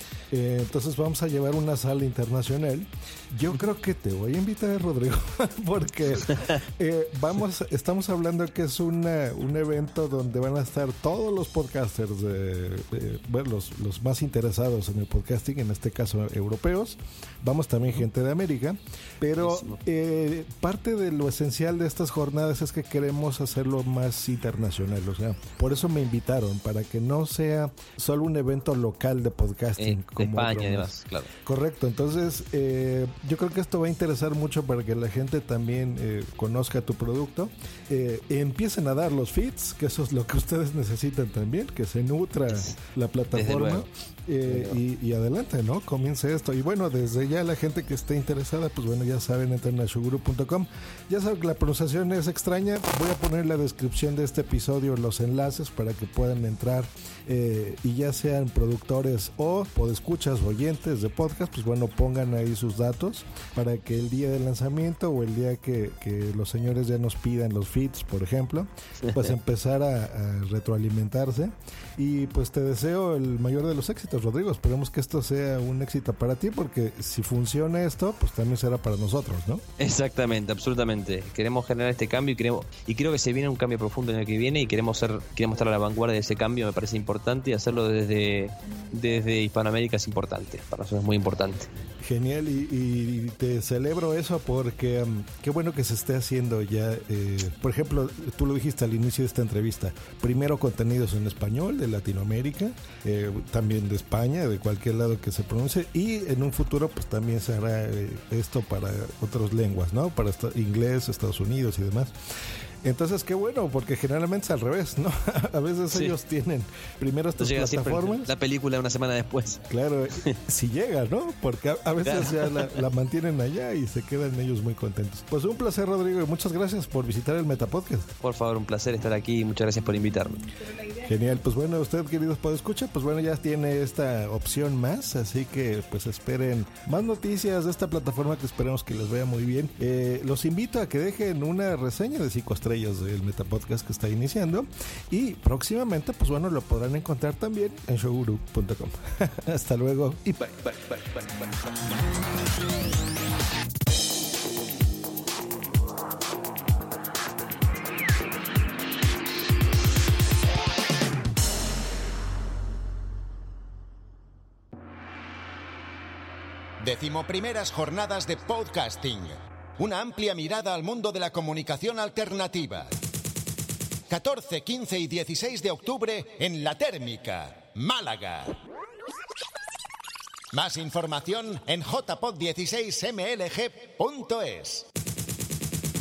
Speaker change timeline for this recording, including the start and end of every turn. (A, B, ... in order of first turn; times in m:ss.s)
0:00.3-0:30.9 A
0:19.4-0:19.8 B
0:29.8-0:31.3 B
0:31.4-1:19.6 A
0:42.5-0:42.8 B
0:43.3-0:43.9 B
0:44.4-0:44.8 B
1:09.0-1:09.3 B
1:19.8-1:31.7 B
1:32.0-1:52.1 A
1:52.8-1:58.3 A
1:57.4-1:59.6 B
1:59.7-2:08.1 A
2:02.0-2:02.8 B
2:08.2-2:10.4 B
2:10.9-2:31.5 A
2:46.8-2:53.0 C
2:54.1-2:58.6 C
3:00.5-3:04.8 C